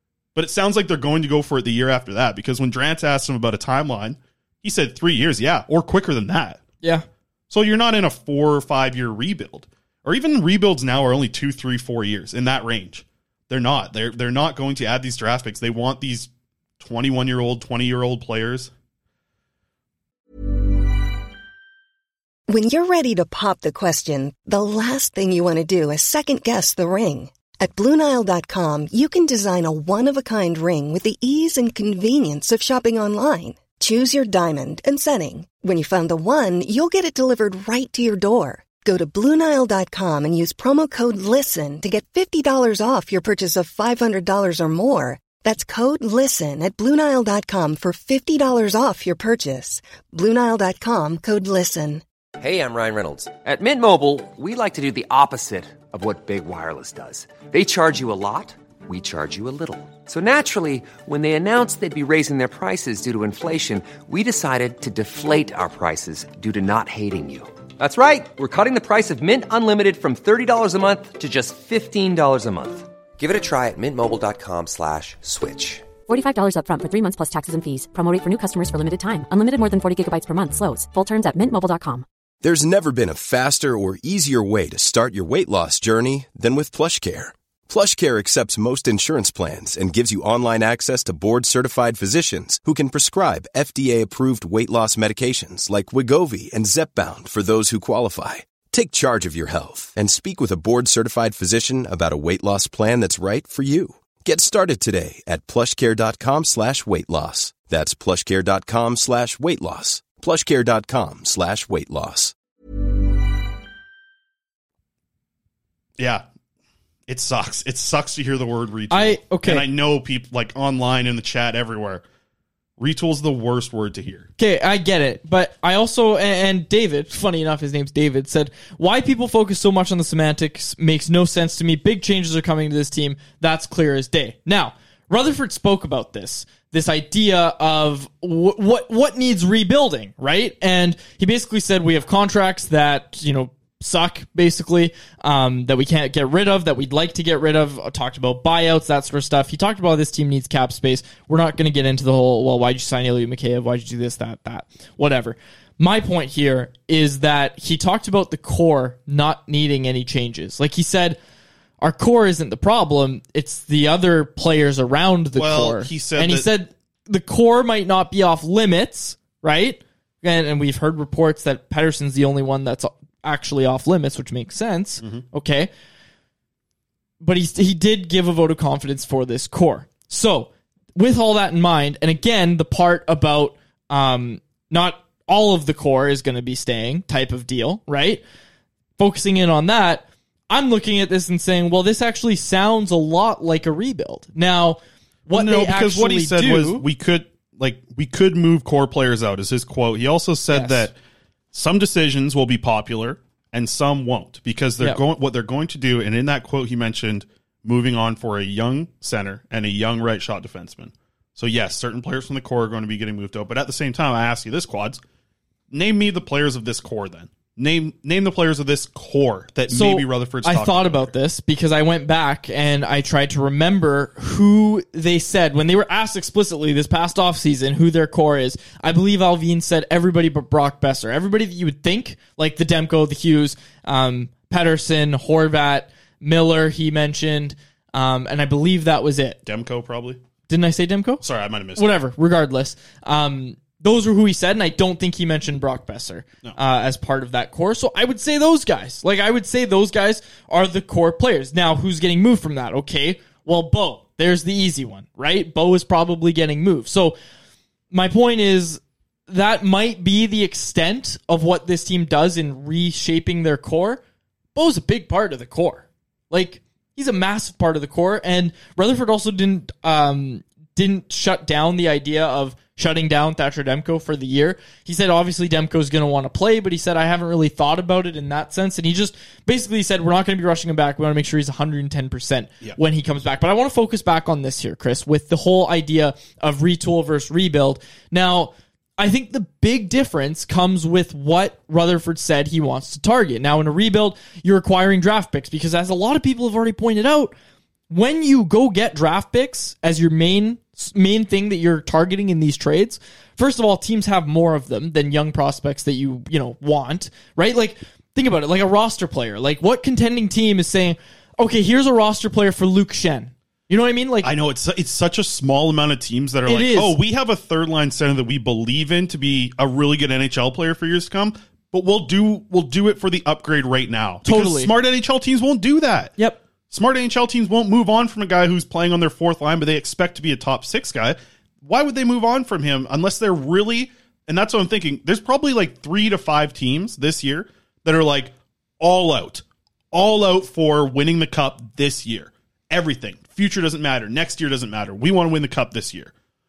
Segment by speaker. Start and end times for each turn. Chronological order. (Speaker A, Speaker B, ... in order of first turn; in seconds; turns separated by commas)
Speaker A: 0.3-6.6, Speaker A: 7.5-18.7, Speaker B: 22.5-52.0, Speaker C: 52.4-75.9, Speaker D: 76.1-82.0, Speaker E: 82.4-112.3, Speaker A: 116.0-116.2, Speaker A: 117.1-122.0, Speaker F: 118.9-119.6, Speaker A: 122.8-124.3, Speaker F: 124.4-161.2, Speaker F: 161.8-175.7, Speaker A: 165.3-166.5, Speaker F: 177.2-188.2, Speaker F: 189.0-196.8, Speaker A: 195.3-200.9, Speaker F: 200.5-200.9, Speaker A: 201.5-215.0, Speaker A: 215.7-221.1, Speaker F: 219.7-239.4, Speaker A: 239.4-240.2, Speaker F: 240.5-241.2, Speaker A: 241.2-241.9, Speaker F: 241.8-257.1, Speaker F: 257.9-264.0, Speaker F: 264.5-297.3, Speaker F: 297.9-314.3, Speaker A: 314.2-326.1, Speaker F: 316.5-316.9, Speaker F: 324.2-324.7, Speaker A: 326.7-346.1